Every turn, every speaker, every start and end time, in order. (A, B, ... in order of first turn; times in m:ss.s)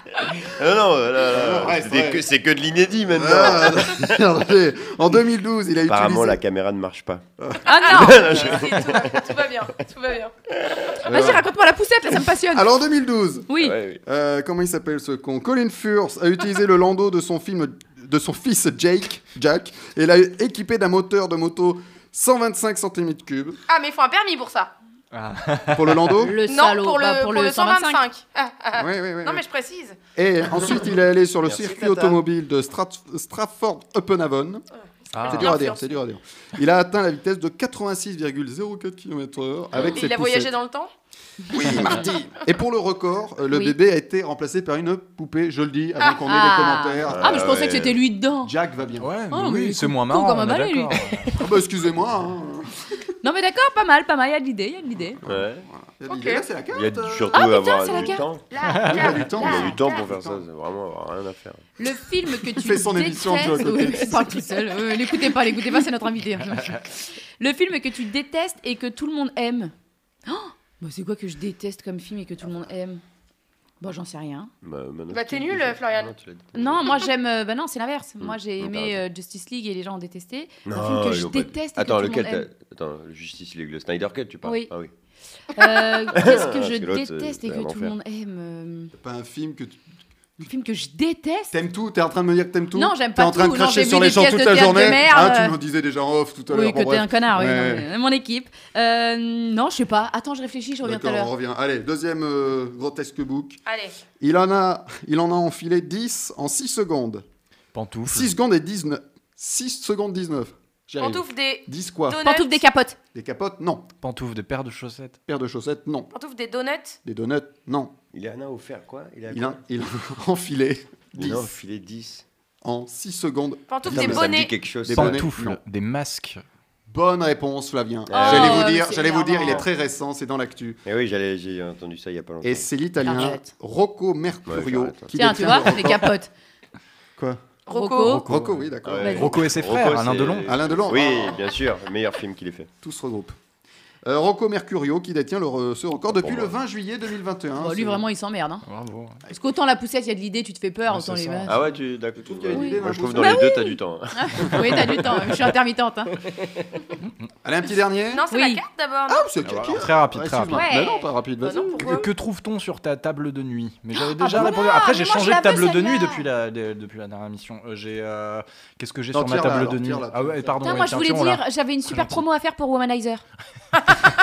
0:00.3-0:04.2 A
0:01.3-0:02.2 B
0:03.1-0:06.4 B
0:05.9-0:07.2 A
0:07.7-0:08.3 C
0:07.8-0:10.3 D
0:07.9-0:09.2 A
0:11.1-0:11.5 B
0:11.1-0:12.7 C
0:12.5-0:13.5 B
0:13.5-0:13.8 C
0:13.6-0:14.0 A
0:14.0-0:23.6 B
0:23.7-0:24.7 D
0:25.1-0:26.1 E
0:25.7-0:26.4 B
0:26.2-0:28.0 C
0:26.5-0:30.0 D
0:28.8-0:29.4 B
0:30.2-0:34.6 B
0:31.4-0:32.2 A
0:35.1-0:35.6 E
0:35.1-0:36.0 D
0:35.2-0:40.5 B
0:39.8-0:40.9 D
0:41.5-0:47.6 B
0:46.2-0:48.5 C
0:47.1-0:48.0 A
0:48.4-0:49.2 B
0:49.0-0:51.4 E
0:49.3-0:51.2 C
0:51.3-0:52.8 B
0:53.2-0:55.2 C
0:55.2-0:57.4 B
0:55.3-0:55.6 A
0:56.1-0:56.4 D
0:56.7-0:58.5 A
0:57.3-0:58.2 C
0:58.5-1:00.1 D
0:58.8-1:00.5 B
0:59.1-1:01.6 A
1:01.8-1:09.7 C
1:02.4-1:04.3 B
1:10.3-1:13.0 C
1:13.8-1:14.5 C
1:14.6-1:17.1 A
1:15.1-1:16.1 D
1:16.5-1:22.5 C
1:18.2-1:19.0 A
1:20.7-1:24.9 A
1:24.4-1:24.7 C
1:25.5-1:28.9 C
1:25.6-1:27.9 A
1:29.0-1:29.8 B
1:30.4-1:31.6 C
1:31.5-1:37.9 B
1:32.8-1:35.6 C
1:36.5-1:41.3 C
1:40.8-1:43.6 B
1:43.7-1:44.0 D
1:44.2-1:47.2 B
1:47.7-1:48.3 E
1:48.1-1:52.2 B
1:51.0-1:52.6 D
1:52.2-1:53.0 C
1:53.1-1:53.9 B
1:54.0-1:55.2 E
1:55.3-1:56.1 B
1:56.1-1:57.0 D
1:57.0-1:58.0 B
1:58.1-1:59.6 A
1:59.3-2:01.6 B
2:01.2-2:02.2 A
2:02.6-2:05.6 B
2:03.7-2:04.5 D
2:03.9-2:05.3 A
2:04.9-2:06.4 E
2:06.9-2:10.8 B
2:08.1-2:08.8 A
2:08.1-2:09.6 C
2:10.8-2:12.7 A
2:12.4-2:16.1 B
2:13.0-2:13.5 C
2:14.5-2:15.6 A
2:15.1-2:16.3 C
2:17.7-2:18.2 D
2:17.7-2:18.3 C
2:18.0-2:20.6 E
2:18.3-2:19.4 B
2:18.8-2:22.7 A
2:20.4-2:21.5 B
2:22.8-2:23.4 B
2:24.0-2:28.0 B
2:26.2-2:26.5 A
2:27.6-2:28.6 C
2:28.7-2:29.2 E
2:29.3-2:31.6 C
2:30.9-2:31.5 E
2:31.5-2:34.8 A
2:32.2-2:33.5 B
2:32.5-2:36.1 C
2:36.3-2:36.6 A
2:37.4-2:38.2 B
2:38.1-2:39.3 D
2:38.3-2:38.6 C
2:39.1-2:42.0 B
2:39.4-2:40.7 E
2:40.5-2:41.0 C
2:41.4-2:42.1 D
2:41.8-2:52.2 E
2:44.2-2:46.2 C
2:49.1-2:50.8 B
2:50.6-2:53.2 C